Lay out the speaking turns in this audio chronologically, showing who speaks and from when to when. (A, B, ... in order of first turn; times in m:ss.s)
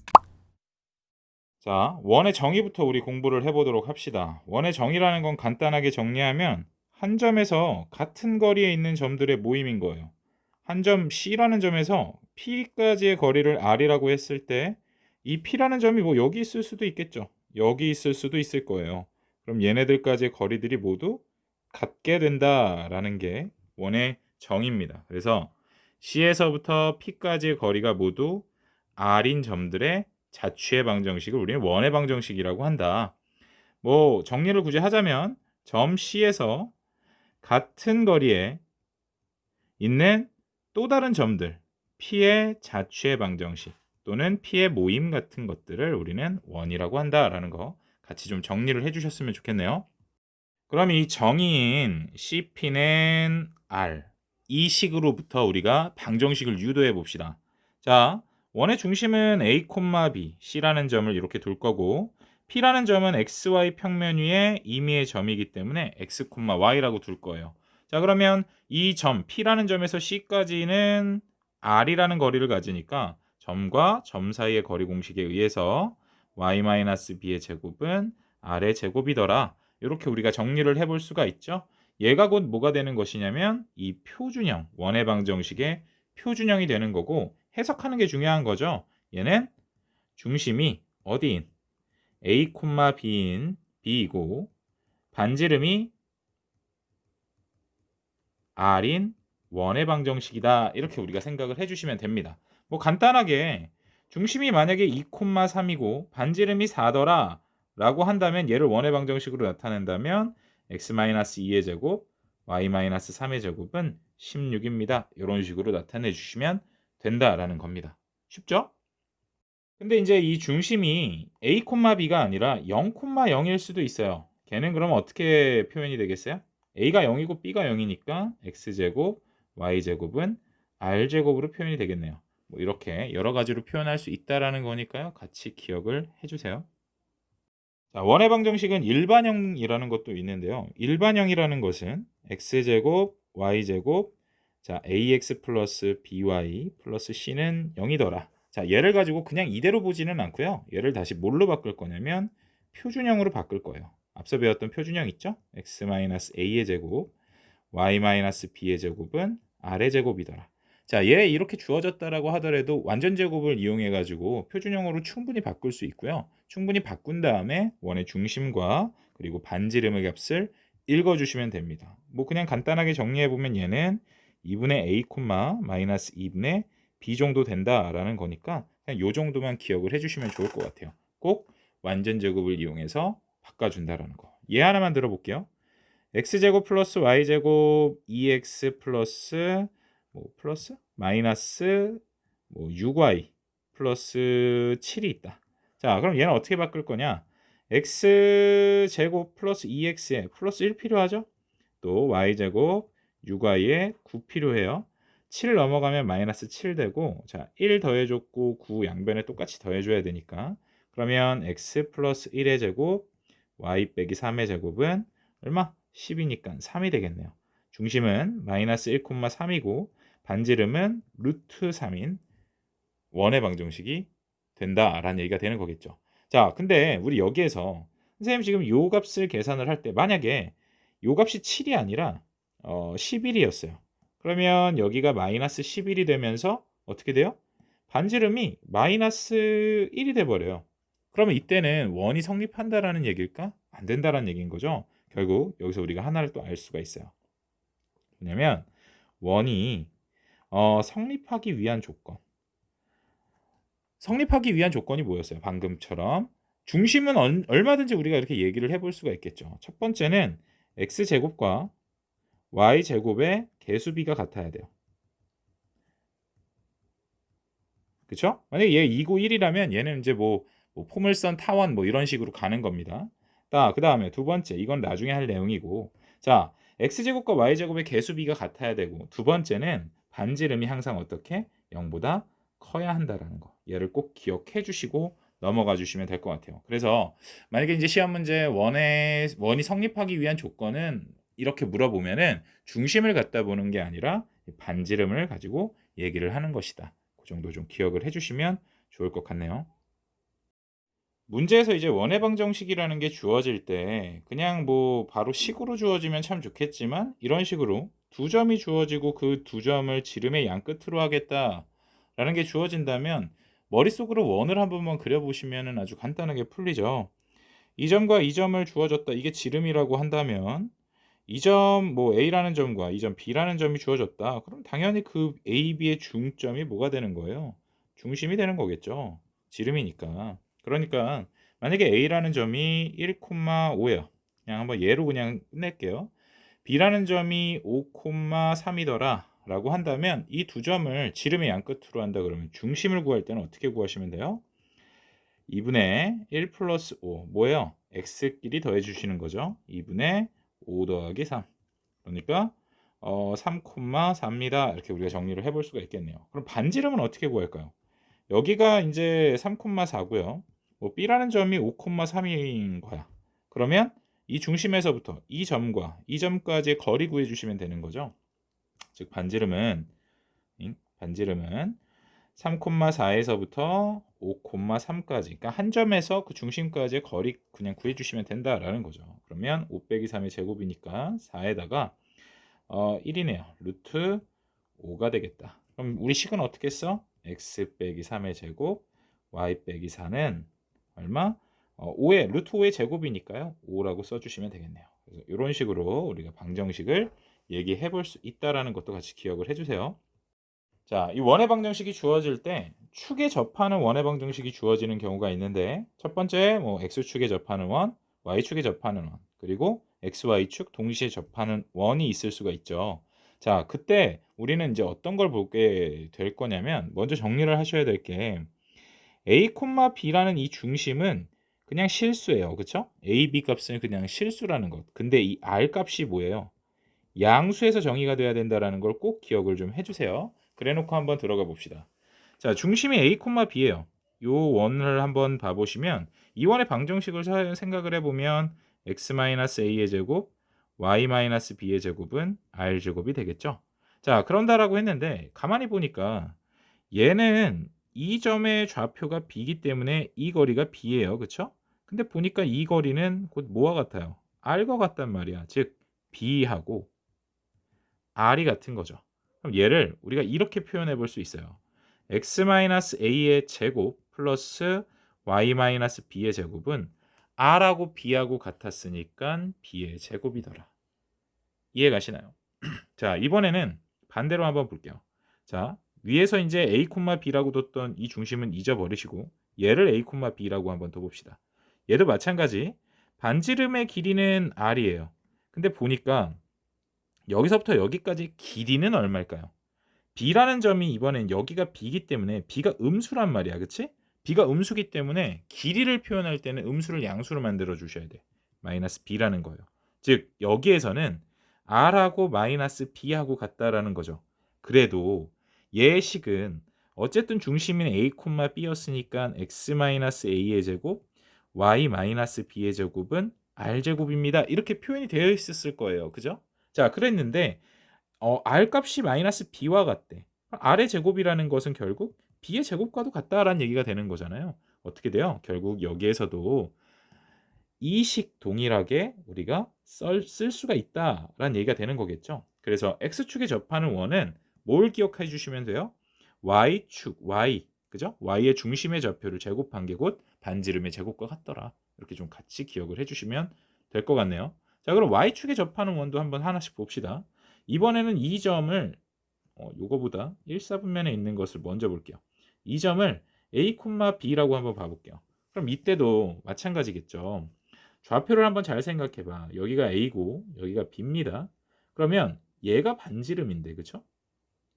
0:01.6-0:10.1 A
0:10.6-0:33.2 A
0:33.8-0:36.7 A
0:37.4-0:38.6 A
0:39.8-0:49.9 A
0:50.7-1:29.5 A
1:30.2-1:31.5 A
1:32.2-1:34.5 A
1:35.1-1:35.9 A
1:38.6-1:58.7 A
1:59.8-2:16.7 A
2:17.9-2:37.1 A
2:37.7-3:05.5 A
3:06.1-3:21.3 A
3:21.8-3:42.2 A
3:43.1-3:57.4 A
3:57.9-4:07.1 A
4:08.2-4:08.7 A
4:09.2-4:09.9 A
4:10.5-4:12.2 A
4:14.0-4:21.7 A
4:22.5-4:24.7 A
4:28.1-4:59.7 A
5:01.3-5:17.1 A
5:17.8-5:20.7 A
5:21.3-5:36.1 A
5:36.6-5:44.4 A
5:45.5-5:51.5 A
5:52.0-5:57.7 A
5:58.3-6:08.1 A
6:08.9-6:09.9 A
6:10.6-6:11.8 A
6:12.4-6:22.0 A
6:22.7-6:24.2 A
6:24.8-6:40.0 A
6:40.9-6:58.5 A
6:59.2-7:06.5 A
7:07.2-7:11.9 A
7:12.4-7:26.4 A
7:26.9-7:36.9 A
7:38.2-7:50.7 A
7:51.7-8:06.4 A
8:07.3-8:09.5 A
8:10.2-8:37.6 A
8:38.2-8:46.8 A
8:47.8-9:09.0 A
9:09.6-9:24.0 A